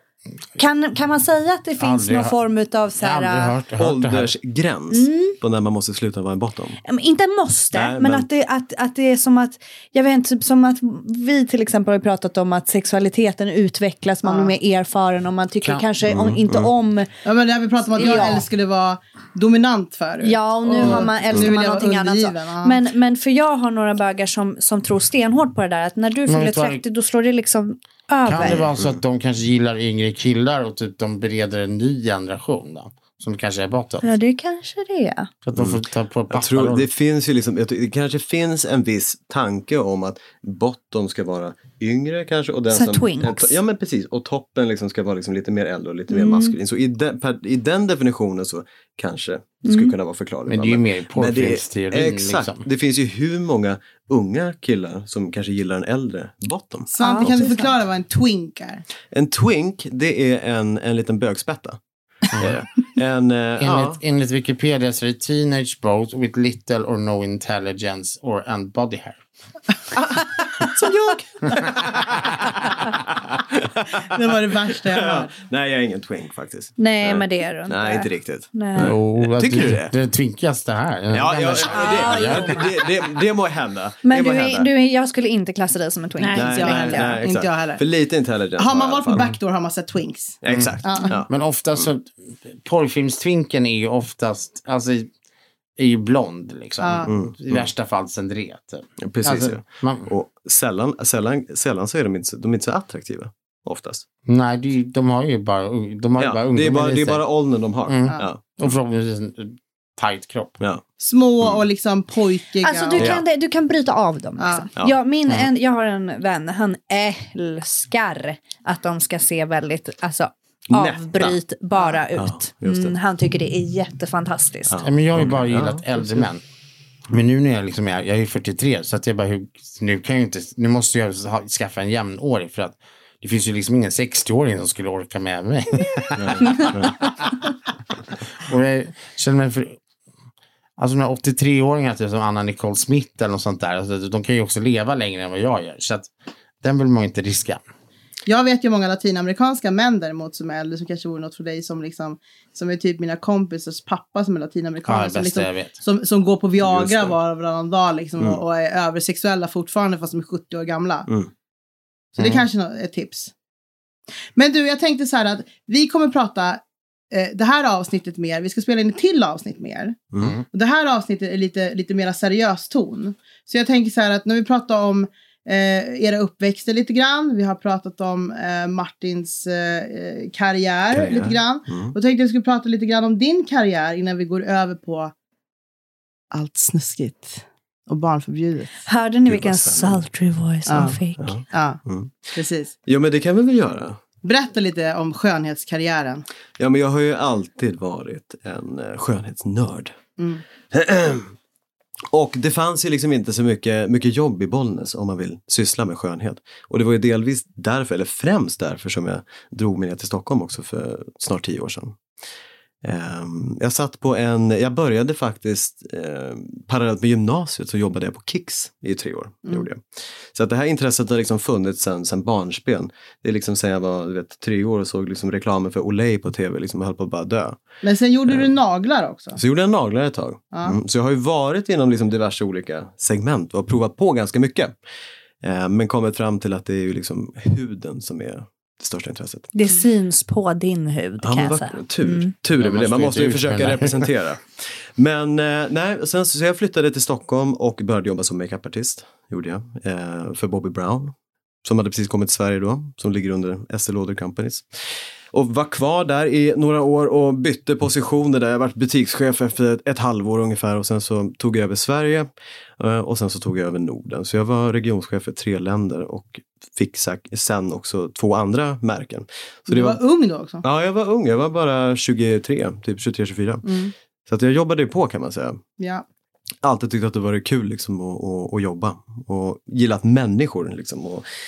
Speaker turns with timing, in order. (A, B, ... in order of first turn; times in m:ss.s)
0:00.6-0:03.5 A
0:01.8-0:02.3 B
0:03.0-0:04.3 B
0:03.8-0:06.8 C
0:04.9-0:05.4 A
0:06.8-0:17.1 A
0:07.7-0:08.3 C
0:14.2-0:14.5 D
0:16.0-0:16.7 C
0:17.2-0:22.8 D
0:17.9-0:18.4 A
0:20.2-0:28.6 A
0:20.8-0:21.5 C
0:26.3-0:26.8 B
0:28.2-0:34.0 B
0:28.4-0:29.0 C
0:34.0-0:35.3 A
0:35.4-0:36.9 B
0:35.6-0:57.5 C
0:42.7-0:43.5 A
0:46.1-0:46.5 A
0:49.6-0:49.9 A
0:50.5-0:52.6 B
0:56.9-0:58.8 D
0:57.0-0:57.7 A
0:59.1-1:01.8 C
1:02.3-1:04.0 C
1:03.6-1:09.2 B
1:10.0-1:14.2 C
1:14.0-1:15.3 D
1:14.7-1:19.9 C
1:16.8-1:19.0 A
1:18.8-1:22.6 B
1:21.1-1:24.7 C
1:21.6-1:22.7 A
1:24.0-1:27.2 A
1:26.2-1:27.8 D
1:26.3-1:29.4 C
1:28.6-1:31.1 D
1:30.4-1:31.9 C
1:31.3-1:35.1 B
1:35.8-1:40.1 B
1:36.8-1:37.1 D
1:37.1-1:37.7 C
1:39.0-1:44.0 C
1:44.3-1:47.2 B
1:46.2-1:48.7 C
1:47.9-1:50.6 B
1:51.0-1:53.2 D
1:52.6-2:04.8 A
1:53.0-1:53.2 C
1:54.4-1:54.6 D
2:00.7-2:01.4 C
2:02.1-2:02.9 C
2:04.7-2:05.8 C
2:04.8-2:06.4 B
2:07.1-2:17.4 B
2:16.2-2:17.0 C
2:18.4-2:19.8 B
2:20.8-2:26.1 B
2:26.6-2:27.6 B
2:28.2-2:41.1 D
2:34.9-2:35.8 B
2:36.6-2:37.2 C
2:42.1-2:43.3 D
2:44.3-2:50.0 D
2:50.5-3:05.1 D
3:00.9-3:01.9 C
3:06.3-3:08.8 D
3:08.8-3:11.4 A
3:09.3-3:10.0 C
3:10.6-3:11.0 D
3:11.2-3:12.3 C
3:11.5-3:11.8 D
3:12.3-3:12.7 D
3:12.8-3:14.0 C
3:14.2-3:16.2 D
3:16.6-3:19.9 C
3:20.2-3:20.4 D
3:20.7-3:21.3 C
3:22.1-3:32.0 C
3:32.8-3:47.6 C
3:47.8-3:49.4 D
3:49.4-3:54.7 C
3:50.5-3:50.8 D
3:55.4-3:59.5 C
3:59.5-4:02.3 A
4:01.2-4:30.0 C
4:02.6-4:04.1 B
4:29.7-4:30.6 D
4:30.6-4:33.8 C
4:33.6-4:33.9 D
4:34.3-4:35.6 C
4:35.8-4:36.0 D
4:36.6-4:41.2 C